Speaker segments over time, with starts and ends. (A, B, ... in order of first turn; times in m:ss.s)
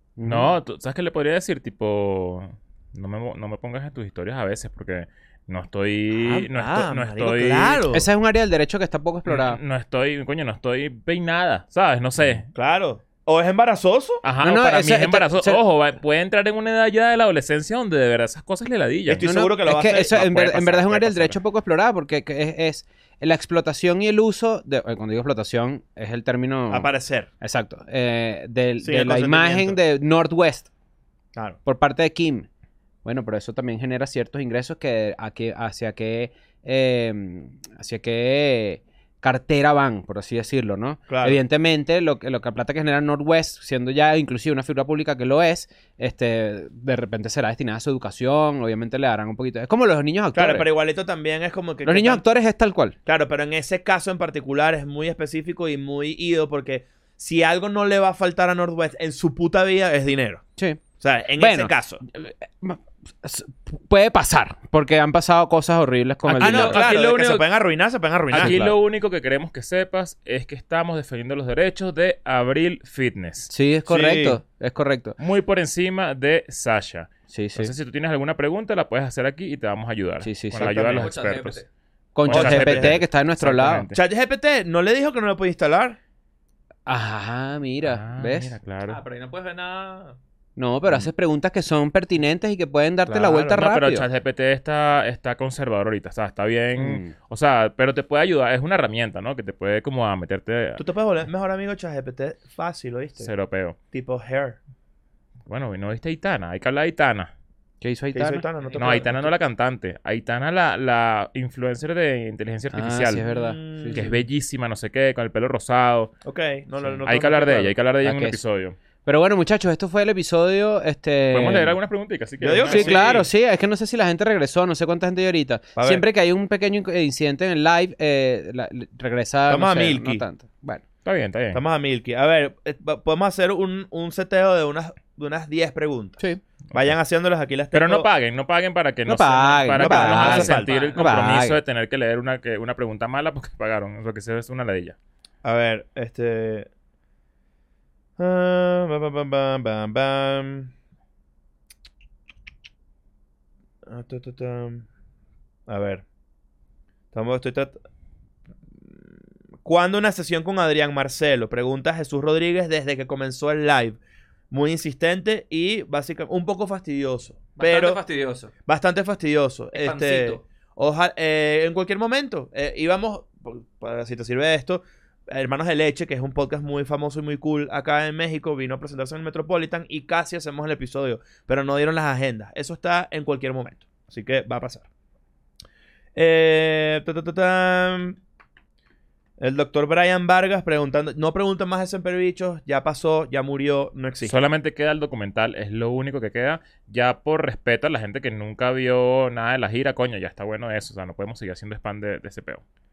0:00.2-0:00.5 A
0:00.2-0:07.8 B
0:06.1-0:08.0 C
0:07.9-0:09.6 A
0:09.2-0:12.5 B
0:12.5-0:14.2 C
0:14.2-0:19.2 B
0:14.4-0:15.6 A
0:19.1-0:20.9 C
0:19.2-0:26.9 A
0:20.4-0:21.3 B
0:26.7-0:27.3 C
0:27.4-0:30.7 A
0:28.8-0:29.8 C
0:31.6-0:32.5 A
0:33.0-0:50.7 A
0:41.1-0:41.4 C
0:50.3-0:52.2 C
0:51.8-0:53.0 A
0:53.0-1:00.4 C
1:01.0-1:02.0 C
1:01.4-1:06.8 A
1:06.2-1:07.5 B
1:06.4-1:08.7 C
1:08.3-1:13.5 B
1:08.3-1:08.7 A
1:13.5-1:15.2 A
1:13.9-1:14.4 C
1:15.2-1:21.6 B
1:17.3-1:17.7 A
1:20.2-1:20.8 A
1:20.6-1:21.1 C
1:20.9-1:21.7 D
1:22.1-1:23.8 A
1:22.2-1:24.0 B
1:22.3-1:23.0 C
1:23.9-1:26.0 C
1:26.8-1:28.5 A
1:27.8-1:29.0 B
1:28.8-1:30.2 D
1:30.6-1:34.1 A
1:33.1-1:33.6 C
1:33.4-1:40.8 B
1:36.8-1:37.1 A
1:40.8-1:43.3 C
1:43.2-1:43.8 B
1:43.9-1:44.6 C
1:45.5-1:47.3 B
1:47.8-1:48.4 A
1:48.1-1:49.3 C
1:48.6-1:49.1 D
1:48.8-1:53.2 B
1:52.7-1:54.2 A
1:53.2-1:54.1 C
1:53.9-1:56.1 B
1:56.2-1:57.8 C
1:57.1-1:58.8 B
1:58.0-1:58.4 A
1:59.0-2:01.8 A
2:01.3-2:03.1 B
2:02.4-2:03.3 C
2:02.6-2:10.8 A
2:05.8-2:06.0 C
2:09.5-2:10.2 C
2:11.0-2:11.6 B
2:11.5-2:18.1 C
2:17.7-2:25.0 B
2:19.0-2:21.6 A
2:19.8-2:20.9 C
2:20.5-2:21.1 D
2:25.4-2:26.7 C
2:28.2-2:30.7 C
2:33.9-2:34.8 C
2:35.7-2:36.0 C
2:37.1-2:37.8 C
2:39.6-2:44.0 C
2:44.5-2:48.0 C
2:47.6-2:48.5 D
2:48.6-3:04.8 C
2:49.7-2:50.4 D
3:06.1-3:08.2 C
3:09.4-3:14.4 C
3:14.2-3:22.6 B